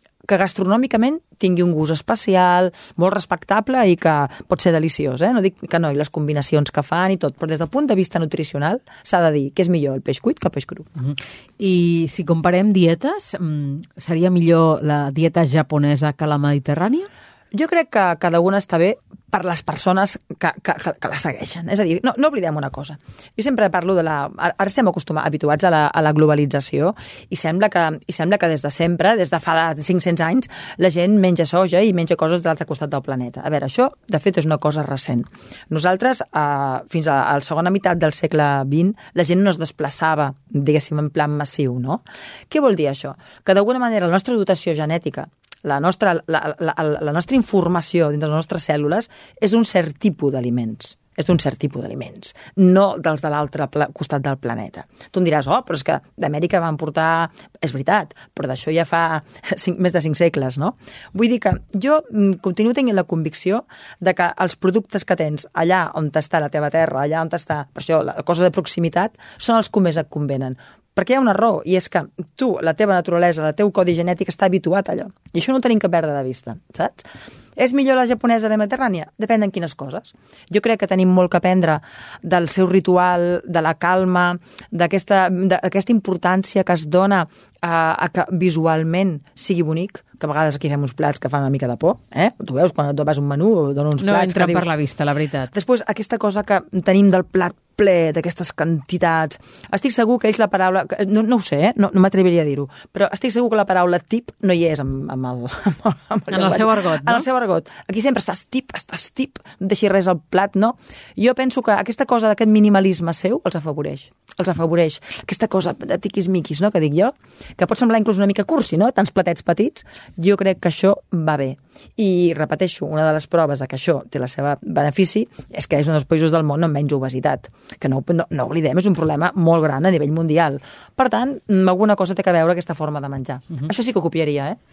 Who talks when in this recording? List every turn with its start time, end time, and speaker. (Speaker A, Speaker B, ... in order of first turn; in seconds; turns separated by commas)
Speaker A: 0.2-10.9, Speaker B: 11.0-17.1, Speaker A: 17.5-94.7, Speaker B: 94.0-95.5, Speaker A: 95.5-134.6, Speaker B: 106.3-107.2